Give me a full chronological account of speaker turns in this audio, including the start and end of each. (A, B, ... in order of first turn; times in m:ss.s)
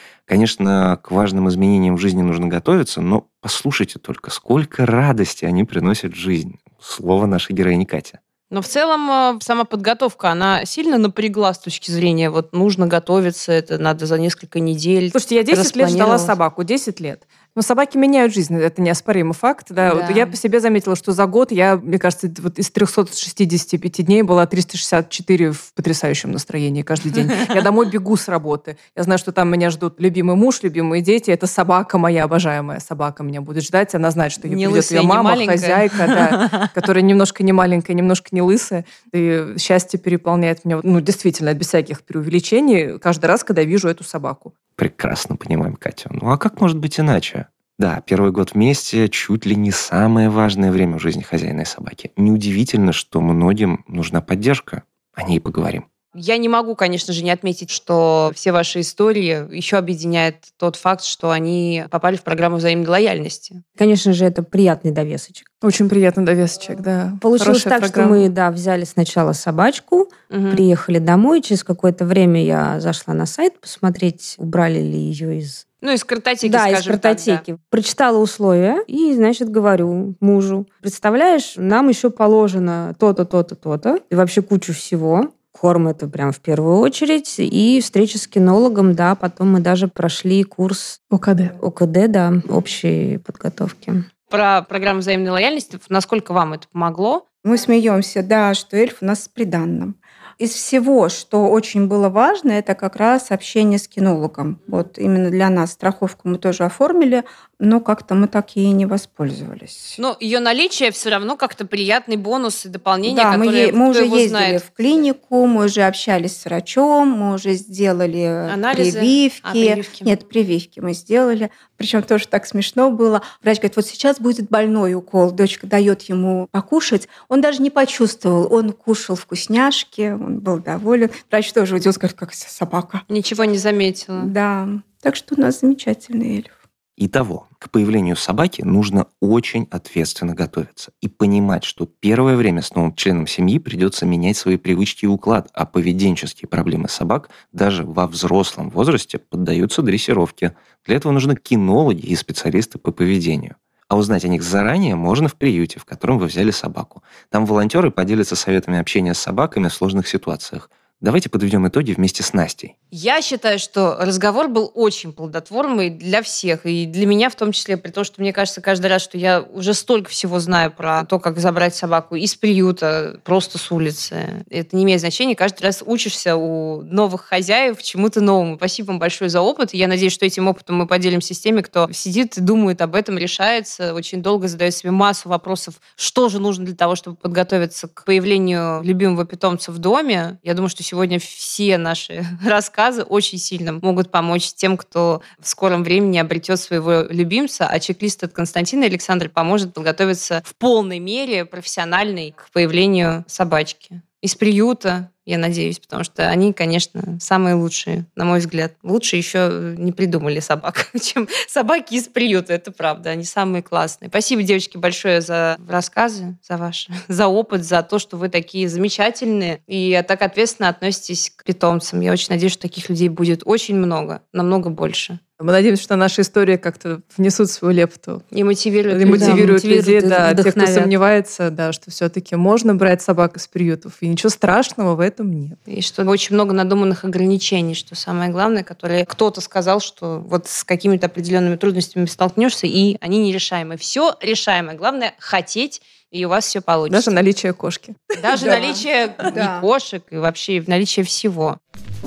0:00.3-0:08.2 A
0:08.5-0:16.4 B
0:15.1-0:44.5 C
0:19.8-0:20.4 B
0:34.4-0:36.7 B
0:44.8-0:55.8 A
0:56.1-1:03.6 B
1:03.8-1:05.5 D
1:05.6-1:08.2 C
1:07.2-1:15.6 D
1:10.3-1:10.6 B
1:15.8-1:17.4 B
1:16.4-1:31.0 D
1:31.1-1:31.5 C
1:31.6-1:34.0 D
1:34.3-1:37.2 B
1:37.4-1:50.0 E
1:50.0-1:54.6 B
1:53.0-2:13.0 E
1:58.5-2:00.2 B
2:13.1-2:14.3 B
2:14.2-2:16.5 E
2:17.0-2:42.7 A
2:42.9-3:45.2 B
3:45.4-3:48.2 C
3:48.3-3:49.6 B
3:48.9-3:55.6 C
3:49.1-3:50.9 D
3:55.7-4:07.2 B
4:06.9-4:08.0 C
4:08.2-4:11.6 B
4:08.4-4:09.7 E